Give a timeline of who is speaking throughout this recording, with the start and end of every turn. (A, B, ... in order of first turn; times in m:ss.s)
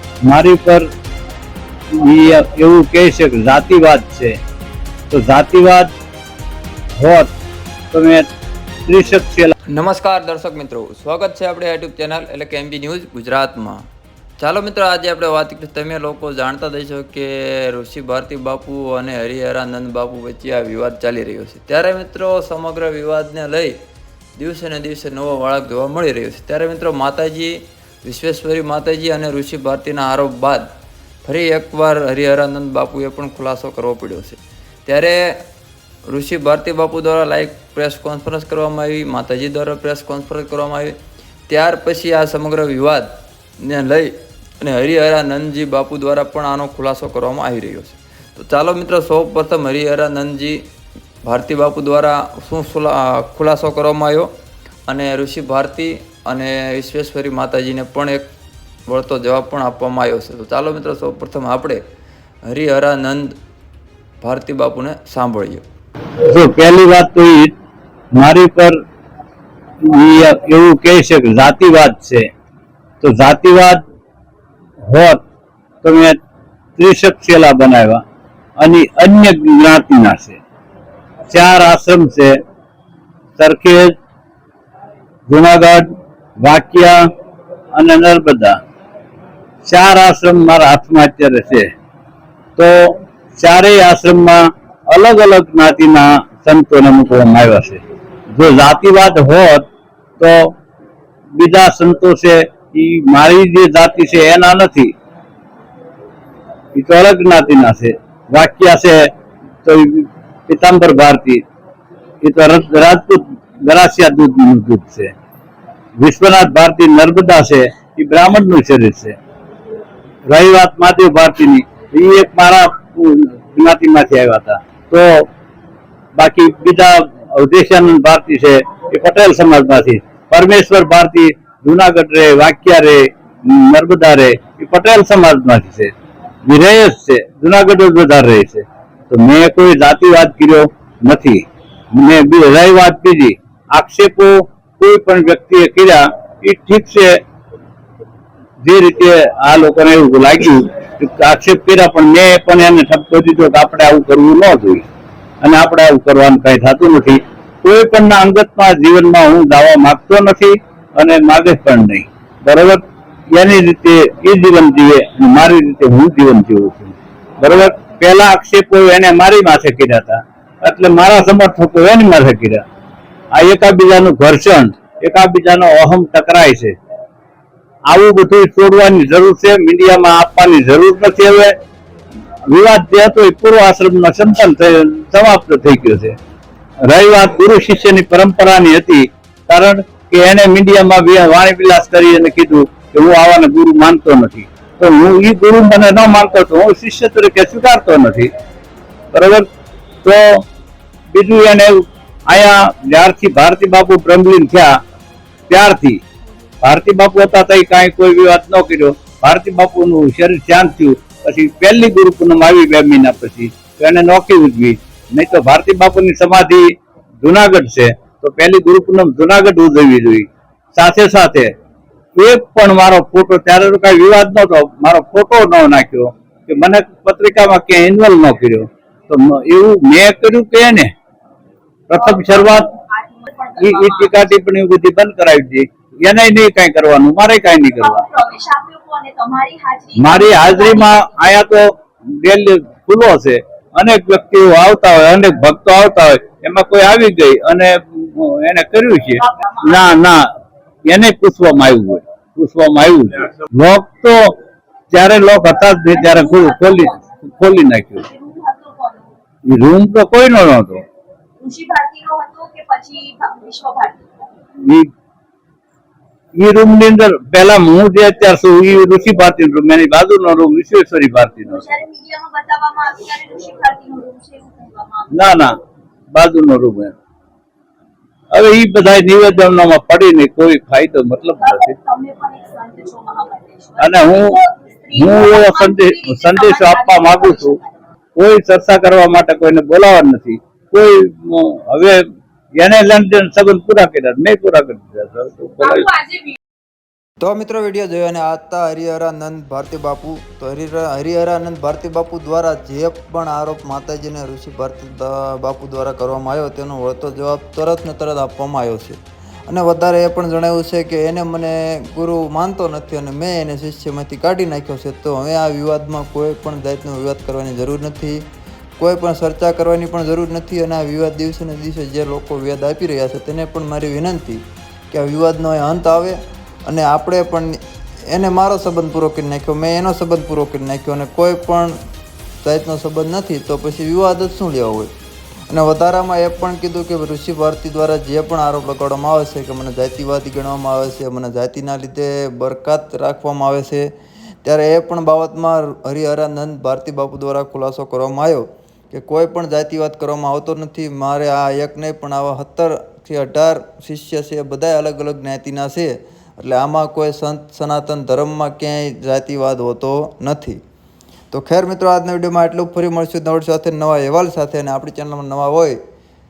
0:00.2-0:00.9 A
0:01.9-0:04.4 A
0:05.1-0:05.9 A
0:07.0-0:07.3 A
0:07.9-0:08.3 A
0:08.9-0:09.5 A
0:09.7-0:13.8 B
0:14.4-0:23.8 B
0:24.4-0:30.7 B
0:31.2-0:35.4 B
0:36.1-0:41.0 B
0:41.5-0:43.1 B
0:43.6-0:50.6 B
0:51.2-0:54.3 B
0:54.9-0:58.2 B
0:58.9-1:01.8 B
1:02.5-1:03.3 B
1:04.2-1:05.6 B
1:06.3-1:07.5 A
1:08.1-1:08.8 A
1:09.8-1:12.3 A
1:13.0-1:13.8 A
1:14.8-1:15.2 A
1:15.8-1:16.2 A
1:16.8-1:18.0 A
1:18.6-1:20.4 A
1:21.3-1:22.4 A
1:23.4-1:23.9 A
1:25.3-1:27.0 A
1:27.7-1:28.6 A
1:29.6-1:31.7 A
1:32.6-1:39.7 A
1:40.2-1:40.5 A
1:41.3-1:44.9 A
1:46.8-1:49.1 A
1:49.6-1:51.4 A
1:52.2-1:55.1 A
1:56.0-1:59.2 A
2:00.3-2:05.3 A
2:06.2-2:15.9 A
2:16.4-2:27.2 A
2:28.6-2:34.8 A
2:35.4-2:42.8 A
2:43.3-2:52.6 A
2:53.3-2:56.8 A
2:57.9-3:01.6 A
3:02.5-3:06.2 A
3:06.8-3:18.3 A
3:19.1-3:19.5 A
3:20.0-3:20.4 A
3:21.1-3:24.8 A
3:25.5-3:26.0 A
3:26.6-3:41.5 A
3:42.2-3:50.9 A
3:51.9-3:52.7 A
3:52.0-3:54.3 C
3:53.6-3:58.0 A
3:57.8-4:01.2 C
4:00.0-4:10.3 A
4:09.2-4:09.9 C
4:10.9-4:14.3 A
4:14.9-4:18.1 A
4:15.9-4:17.0 C
4:18.1-4:19.1 C
4:19.5-4:20.8 A
4:21.4-4:24.3 C
4:24.6-4:24.9 A
4:26.4-4:31.7 A
4:31.5-4:35.1 C
4:35.1-4:35.5 A
4:36.1-4:37.0 A
4:38.3-4:41.7 A
4:41.4-4:47.8 C
4:43.8-4:44.4 A
4:44.9-4:47.6 A
4:48.2-4:52.0 A
4:52.6-4:56.0 A
4:56.0-4:56.3 C
4:57.2-5:18.2 B
5:18.8-5:27.6 B
5:28.1-5:31.7 B
5:32.4-5:34.9 B
5:35.5-5:43.9 B
5:44.4-6:00.6 B
6:01.3-6:05.8 B